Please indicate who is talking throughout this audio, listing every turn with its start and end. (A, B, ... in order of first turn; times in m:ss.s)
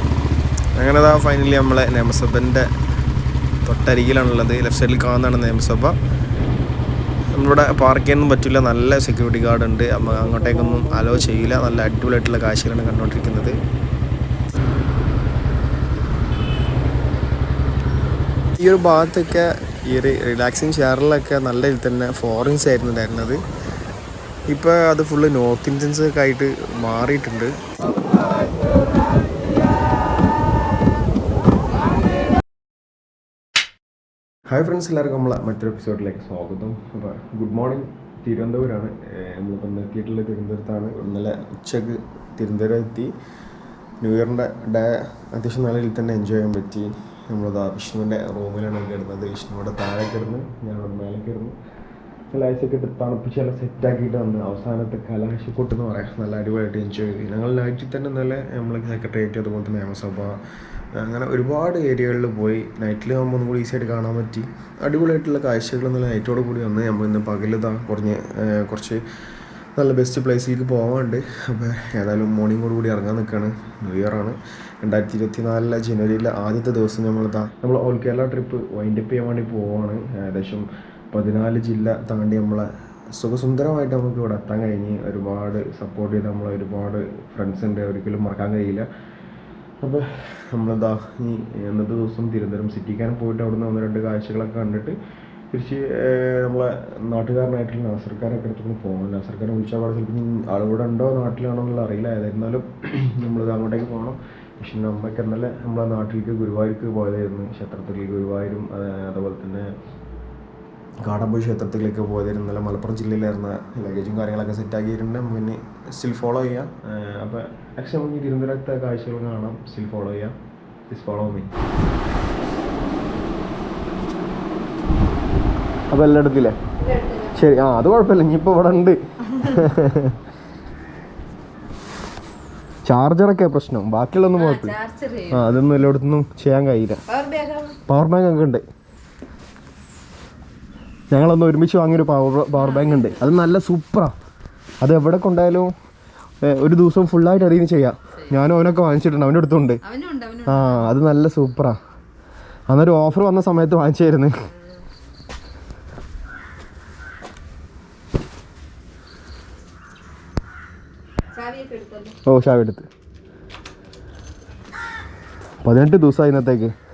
0:00.8-0:02.7 A
0:03.7-0:06.0 A
0:07.4-0:13.6 A
0:18.6-0:23.4 A
0:24.5-0:27.5 A
0:34.5-0:43.1 A
0:44.0-0:51.6 A
0:52.3-1:00.4 A
1:01.0-1:09.0 A
1:09.8-1:28.9 A
1:29.8-1:35.0 A
1:35.5-1:49.7 A
1:51.0-2:00.4 A
2:00.9-2:01.5 A
2:05.9-2:06.6 A
2:06.8-2:07.4 B
2:07.3-2:10.2 A
2:12.8-2:14.8 A
2:14.3-2:15.5 B
2:15.3-2:17.0 A
2:17.1-2:17.8 B
2:17.9-2:18.6 A
2:21.1-2:24.1 A
2:22.6-2:23.2 B
2:24.8-2:25.7 A
2:26.4-2:29.8 A
2:29.8-2:30.9 B
2:30.5-2:31.8 A
2:32.7-2:34.3 A
2:41.3-2:42.2 B
2:42.3-2:42.9 A
2:45.6-2:46.7 A